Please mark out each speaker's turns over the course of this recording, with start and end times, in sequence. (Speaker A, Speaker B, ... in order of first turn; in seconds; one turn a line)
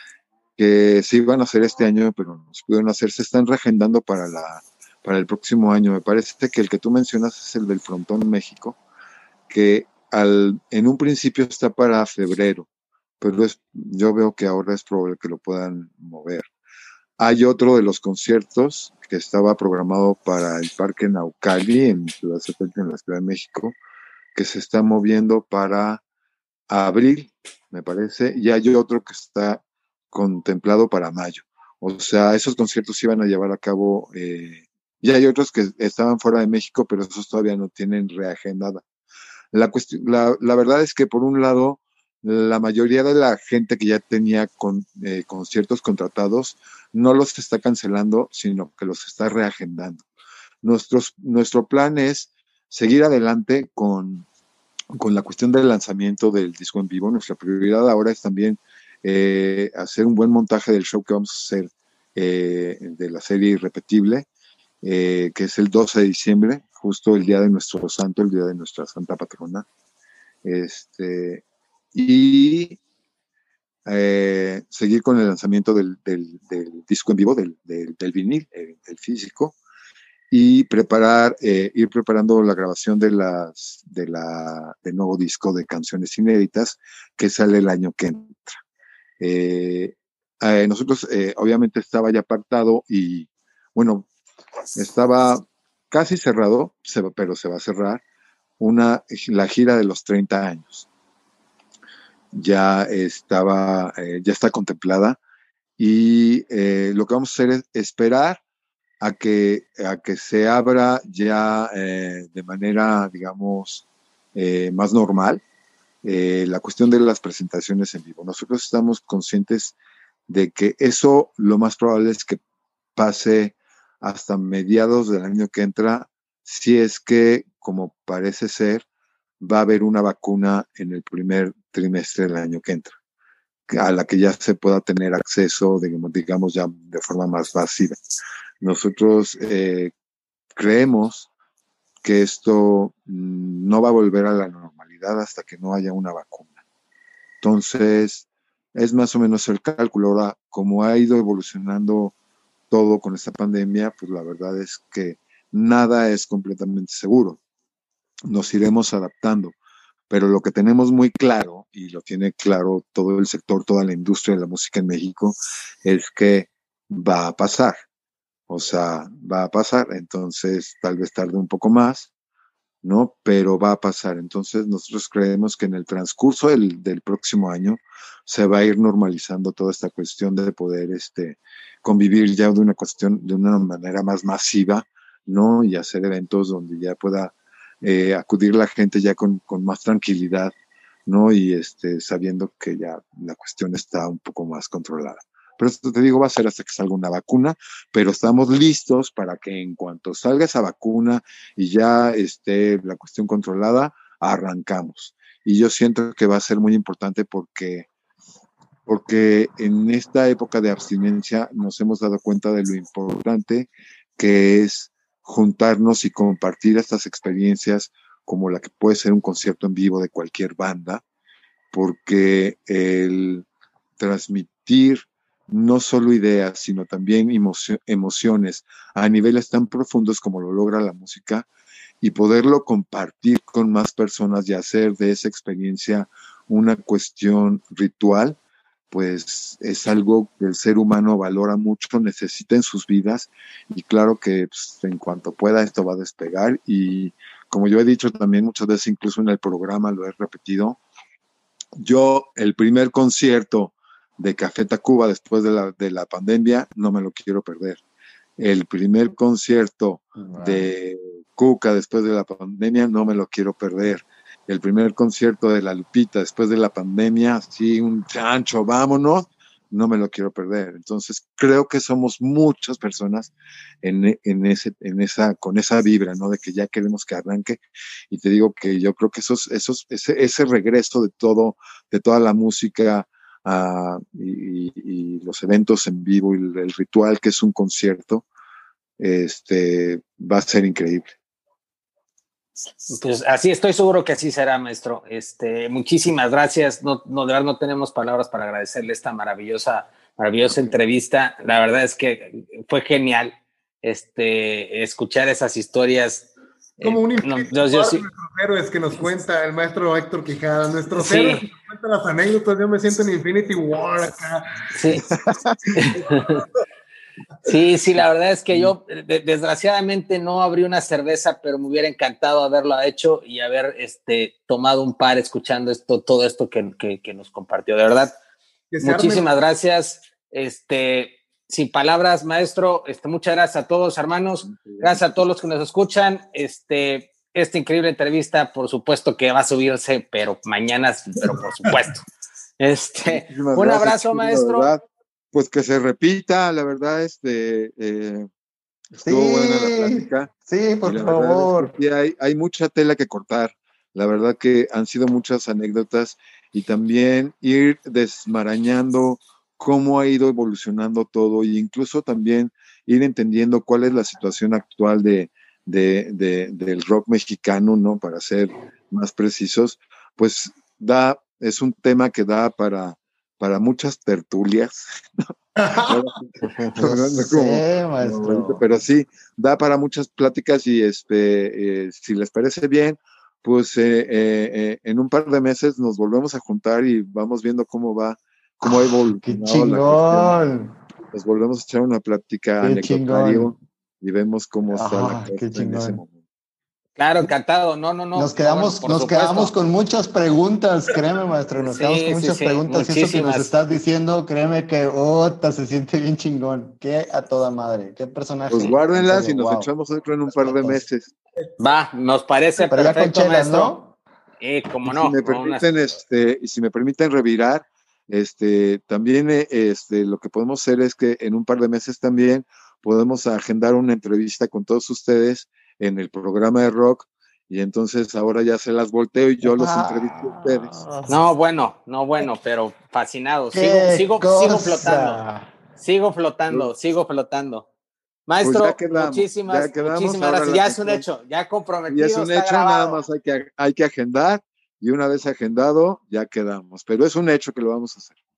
Speaker A: 0.6-8.8
Speaker A: 9.5-12.7
Speaker A: 13.2-16.5
Speaker A: 17.2-23.8
Speaker A: 24.3-26.0
Speaker A: 26.7-38.8
Speaker A: 39.5-50.0
Speaker A: 50.6-54.3
Speaker A: 54.9-64.3
Speaker A: 64.8-69.7
Speaker A: 70.4-72.8
Speaker A: 73.8-79.5
Speaker A: 80.3-88.6
Speaker A: 89.2-94.1
Speaker A: 94.8-98.0
Speaker A: 98.6-100.9
Speaker A: 102.3-105.2
Speaker A: 105.8-108.4
Speaker A: 109.0-115.4
Speaker A: 116.0-119.7
Speaker A: 120.3-122.4
Speaker A: 123.0-128.8
Speaker A: 129.4-132.9
Speaker A: 133.7-138.0
Speaker A: 138.6-139.9
Speaker A: 140.6-141.3
Speaker A: 142.0-146.5
Speaker A: 147.4-152.1
Speaker A: 152.7-157.4
Speaker A: 158.3-159.6
Speaker A: 160.1-167.8
Speaker A: 168.5-172.1
Speaker A: 172.8-190.5
Speaker A: 191.1-207.9
Speaker A: 208.8-221.0
Speaker A: 221.7-223.4
Speaker A: 224.0-231.5
Speaker A: 232.0-238.4
Speaker A: 238.9-250.8
Speaker A: 251.8-257.8
Speaker A: 258.4-273.3
Speaker B: 260.1-260.7
Speaker A: 273.8-288.2
Speaker A: 289.0-291.1
Speaker C: 292.9-306.3
Speaker A: 300.4-300.8
Speaker C: 306.8-308.1
Speaker D: 306.8-315.0
Speaker C: 310.9-311.4
Speaker C: 314.7-315.1
Speaker A: 315.1-315.8
Speaker C: 315.7-316.4
Speaker D: 315.9-316.2
Speaker C: 317.4-328.1
Speaker D: 328.7-329.3
Speaker C: 328.8-342.0
Speaker A: 334.4-335.2
Speaker C: 342.6-344.7
Speaker A: 343.1-344.8
Speaker A: 345.3-348.3
Speaker A: 348.9-350.3
Speaker B: 349.0-351.7
Speaker A: 350.8-375.0
Speaker D: 375.6-376.0
Speaker A: 375.7-390.3
Speaker B: 376.8-378.6
Speaker B: 388.6-390.7
Speaker A: 391.1-396.1
Speaker B: 392.6-393.5
Speaker B: 394.7-396.0
Speaker C: 397.0-399.5
Speaker B: 398.1-409.7
Speaker C: 401.6-403.5
Speaker A: 408.5-411.1
Speaker B: 410.3-410.8
Speaker C: 411.6-413.7
Speaker B: 412.6-413.9
Speaker C: 414.4-415.6
Speaker A: 414.8-430.7
Speaker B: 429.4-431.2
Speaker C: 431.1-435.2
Speaker B: 433.5-435.5
Speaker C: 435.8-437.7
Speaker C: 438.3-443.0
Speaker A: 438.4-441.0
Speaker A: 441.9-448.1